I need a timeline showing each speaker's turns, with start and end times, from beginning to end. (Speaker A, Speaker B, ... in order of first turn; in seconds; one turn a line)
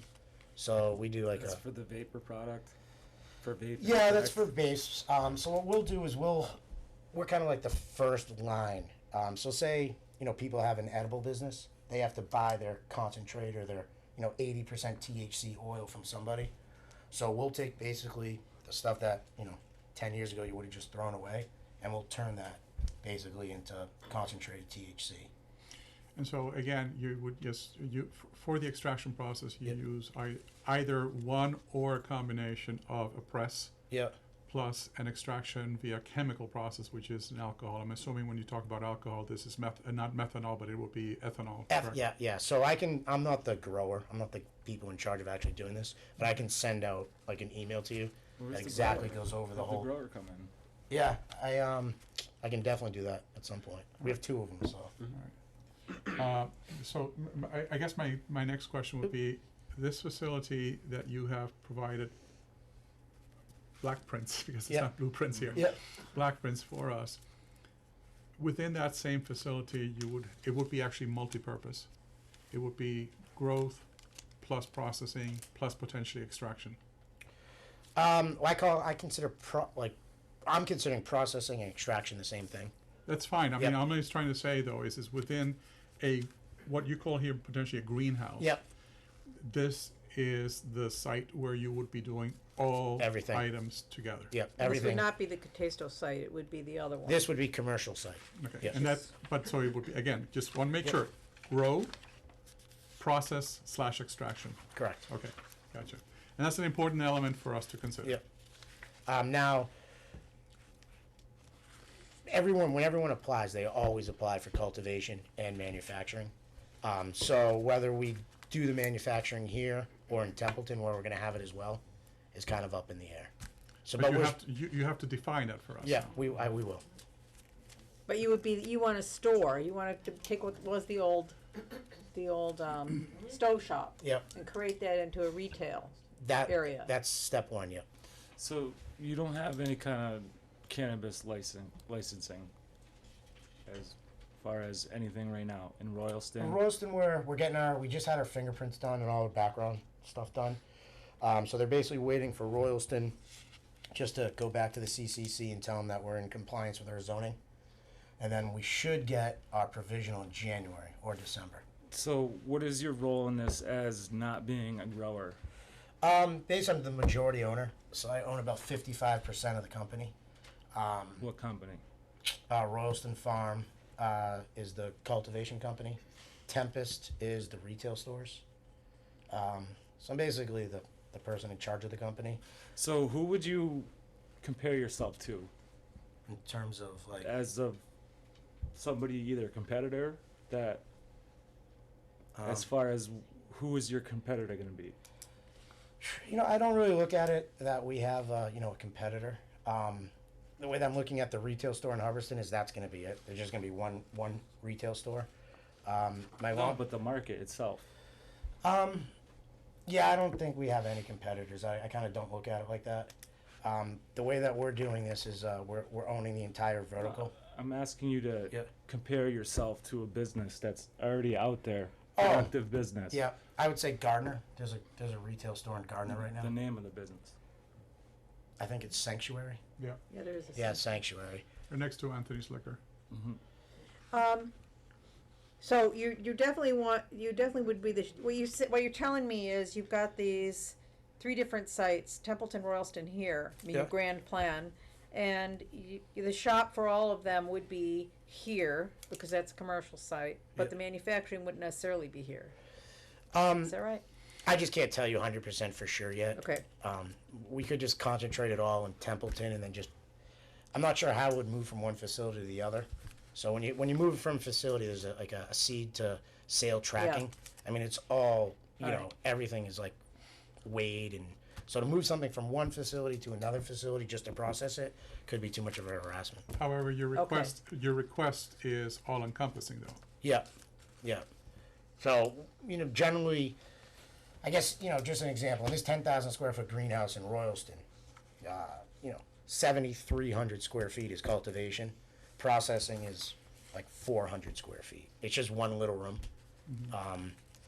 Speaker A: 0.6-1.6
Speaker B: 1.4-2.7
Speaker B: 3.4-4.5
Speaker A: 3.8-6.6
Speaker A: 7.1-16.5
Speaker A: 17.1-25.3
Speaker C: 26.1-33.7
Speaker C: 34.5-42.0
Speaker A: 41.7-49.9
Speaker B: 48.4-50.5
Speaker A: 50.9-54.9
Speaker C: 56.0-62.1
Speaker C: 63.8-67.2
Speaker C: 68.4-71.9
Speaker C: 72.5-73.9
Speaker C: 74.4-76.8
Speaker A: 78.0-82.7
Speaker C: 83.0-88.5
Speaker C: 89.4-94.4
Speaker A: 93.0-93.5
Speaker A: 94.3-95.0
Speaker D: 94.6-97.3
Speaker A: 97.0-98.9
Speaker C: 98.4-102.0
Speaker C: 103.0-108.2
Speaker A: 104.8-105.0
Speaker A: 109.1-109.7
Speaker A: 112.2-121.8
Speaker A: 122.3-123.3
Speaker A: 123.8-124.4
Speaker C: 123.9-126.1
Speaker A: 125.8-126.8
Speaker D: 128.1-136.9
Speaker A: 134.0-134.2
Speaker A: 136.2-137.8
Speaker B: 138.4-142.5
Speaker B: 143.7-146.6
Speaker A: 146.4-150.6
Speaker A: 151.2-153.2
Speaker A: 153.9-157.4
Speaker A: 158.2-161.6
Speaker B: 161.9-165.4
Speaker A: 166.0-170.1
Speaker A: 170.7-171.2
Speaker B: 171.2-171.8
Speaker A: 172.5-178.4
Speaker A: 179.3-182.4
Speaker B: 182.8-183.9
Speaker B: 184.4-185.5
Speaker A: 186.3-187.3
Speaker B: 187.2-187.8
Speaker B: 188.7-190.8
Speaker A: 192.3-192.7
Speaker B: 192.4-195.0
Speaker A: 196.0-205.3
Speaker A: 205.8-206.8
Speaker B: 206.5-207.9
Speaker A: 208.6-209.1
Speaker A: 209.8-213.1
Speaker A: 213.6-217.3
Speaker B: 217.0-223.2
Speaker A: 222.2-222.5
Speaker A: 223.1-226.5
Speaker B: 226.4-227.3
Speaker A: 228.6-229.6
Speaker D: 230.1-230.8
Speaker A: 230.5-231.4
Speaker C: 231.7-232.8
Speaker B: 233.1-233.4
Speaker D: 234.1-234.5
Speaker D: 235.6-252.5
Speaker A: 253.3-253.7
Speaker D: 253.6-254.0
Speaker A: 254.4-259.9
Speaker D: 256.4-256.6
Speaker A: 260.7-270.0
Speaker D: 267.0-267.2
Speaker A: 270.6-276.4
Speaker C: 276.5-280.0
Speaker D: 277.1-277.5
Speaker A: 280.2-280.5
Speaker A: 282.0-283.6
Speaker A: 284.4-287.8
Speaker A: 288.4-296.2
Speaker A: 296.9-297.4